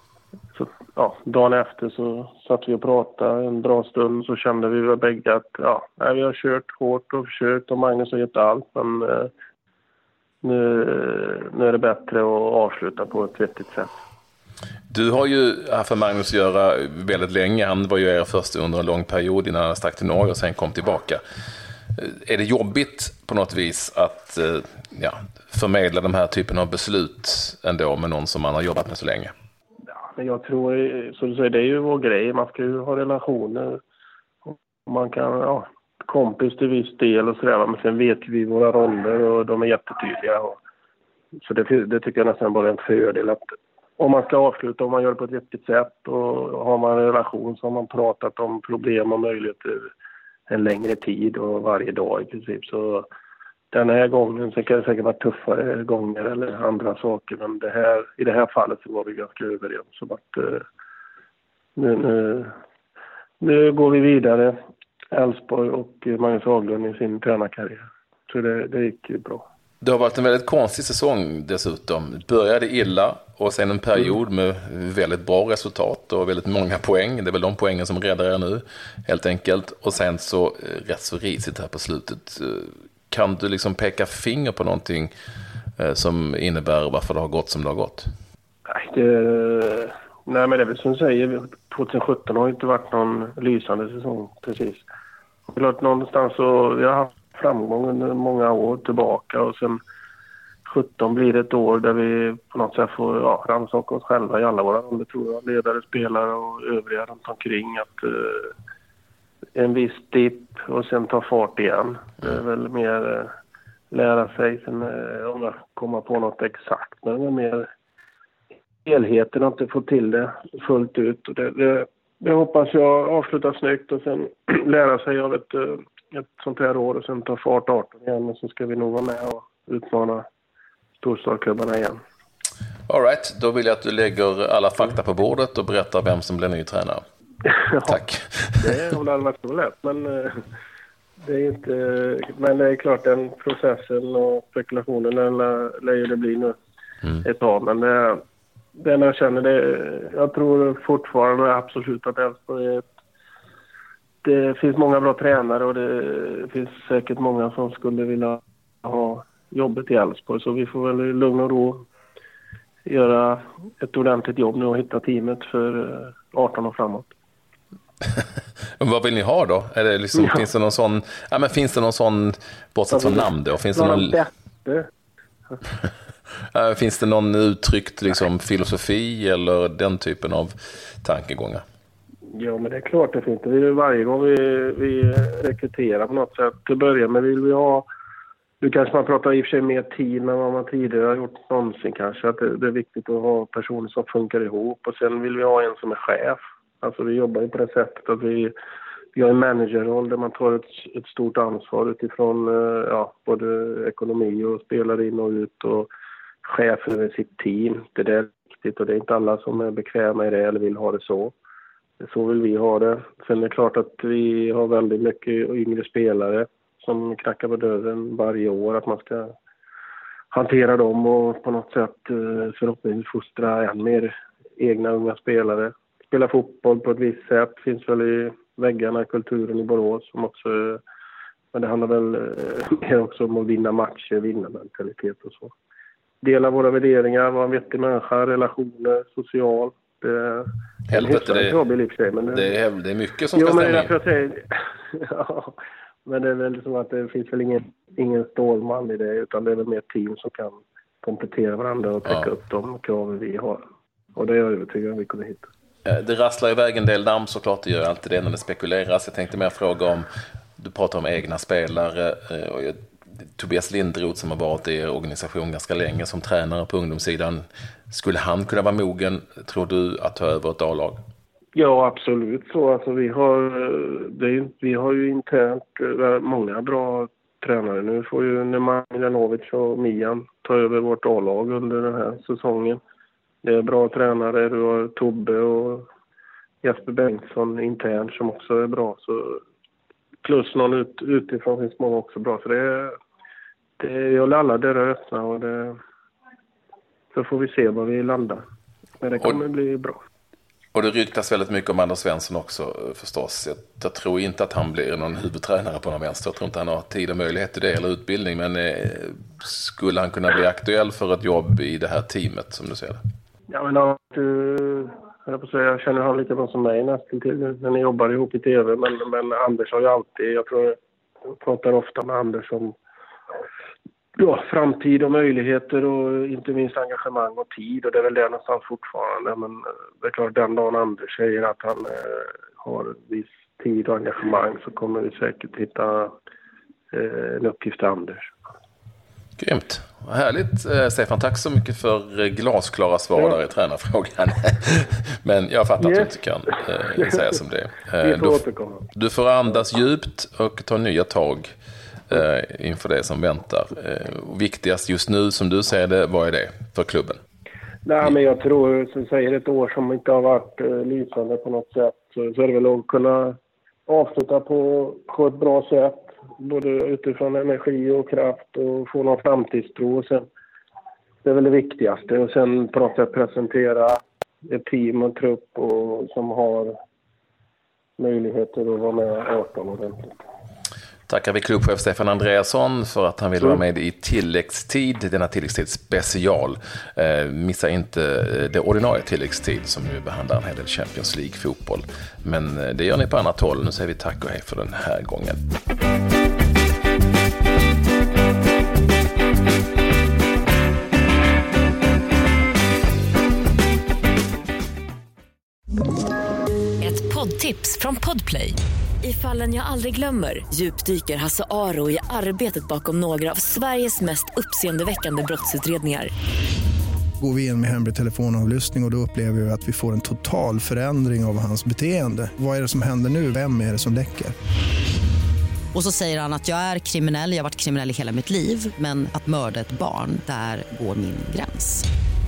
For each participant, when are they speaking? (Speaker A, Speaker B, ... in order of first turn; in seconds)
Speaker A: 0.5-9.3, 10.4-13.9, 30.1-33.8, 34.4-40.6, 41.4-43.4, 44.0-49.9, 50.5-53.1, 53.7-60.6, 61.8-62.5, 63.4-64.5, 65.1-69.4, 88.7-94.8, 95.5-99.8, 100.6-108.5, 109.5-113.3, 113.9-117.7, 118.8-130.2, 131.0-132.0, 137.7-138.0, 138.6-140.4, 141.2-146.5, 147.2-148.2, 148.8-152.8, 154.2-161.8, 162.8-167.1, 172.9-174.9, 182.3-187.9, 188.6-198.5, 199.1-205.9, 206.4-211.3, 212.0-219.3, 220.3-230.8, 231.5-235.5, 236.2-242.6, 243.3-253.6, 254.2-255.5, 271.5-282.8, 283.4-285.9, 286.6-289.4, 290.2-292.9, 293.8-295.8, 297.1-298.4, 299.0-300.0, 313.5-320.8, 321.3-322.8, 324.1-336.1, 336.9-338.3, 345.8-346.1, 346.8-347.1, 348.0-348.9, 357.8-370.2, 371.2-376.7, 378.0-380.1
Speaker B: 14.9-21.2, 21.9-29.3, 69.8-85.1, 85.8-88.1, 132.9-137.0, 137.8-138.7, 168.8-174.2, 176.5-181.6, 240.9-241.6, 242.3-243.9, 255.8-260.1, 260.6-262.8, 263.4-271.0, 300.7-313.0, 339.4-348.4, 348.9-351.5, 352.1-357.2, 381.1-395.4
Speaker C: 406.8-416.1
Speaker D: 417.2-424.3
Speaker E: 425.7-431.8